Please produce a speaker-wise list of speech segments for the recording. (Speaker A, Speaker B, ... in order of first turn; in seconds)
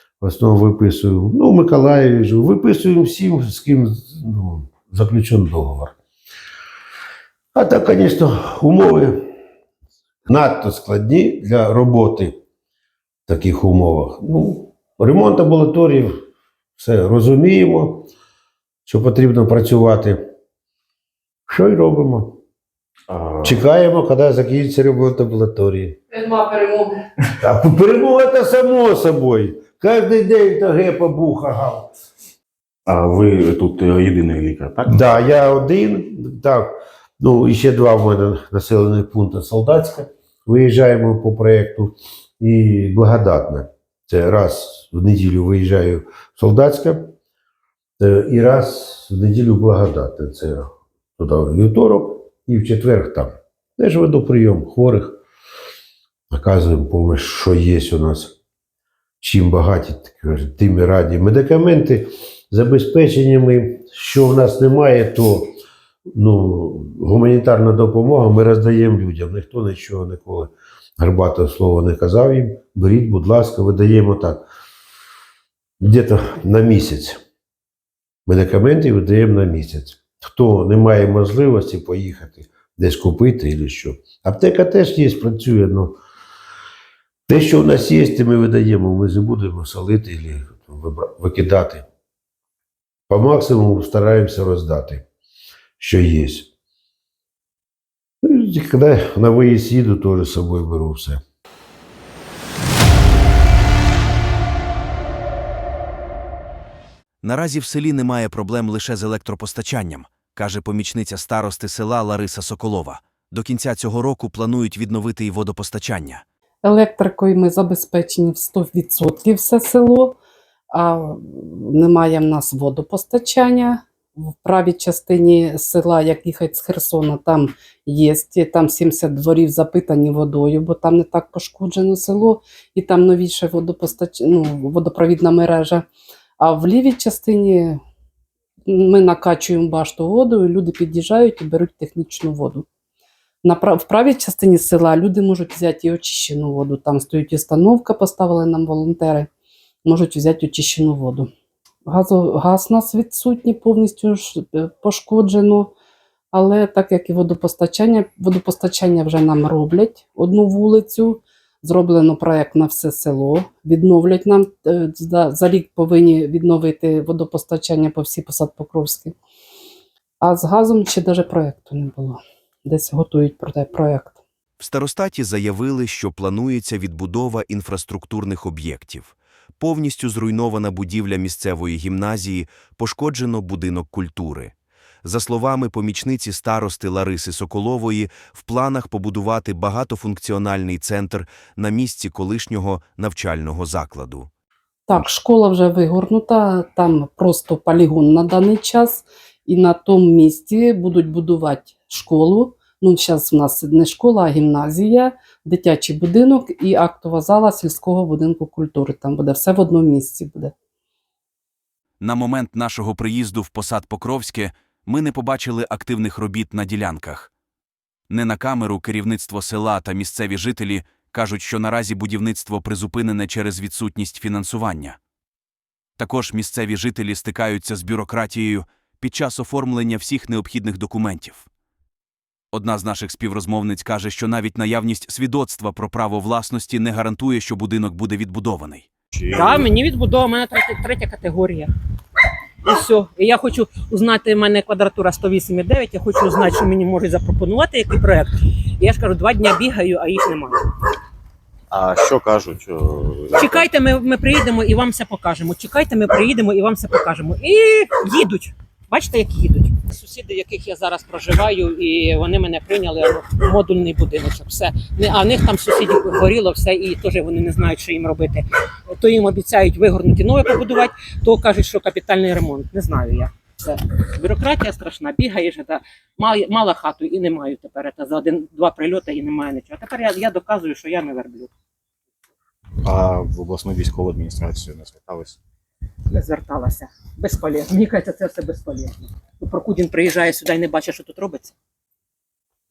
Speaker A: 0.2-5.9, 7.5-9.2, 10.3-12.3, 13.3-16.1, 16.8-18.1, 18.9-20.2, 21.5-22.4, 23.4-26.0, 27.4-31.9, 34.9-47.1, 48.0-55.2, 56.3-58.4, 59.2-65.5, 66.1-74.4, 75.8-77.2, 78.2-86.0, 87.3-91.8, 93.1-95.0, 95.8-96.5, 98.2-101.2
Speaker B: 23.1-23.6, 32.9-35.0, 239.2-239.7, 251.7-253.7, 282.8-285.4
Speaker C: 26.1-26.9, 116.6-120.2, 120.7-135.9, 136.4-137.8, 138.7-142.7, 143.4-149.3, 149.8-151.3, 151.8-155.7, 156.3-169.2, 170.2-174.2, 194.9-210.5
Speaker D: 107.2-116.2, 174.6-184.5, 185.0-194.3, 212.0-217.3, 218.1-225.0, 226.0-231.5, 232.5-238.9
Speaker E: 239.3-241.7, 242.6-250.6, 253.3-281.5, 286.1-291.5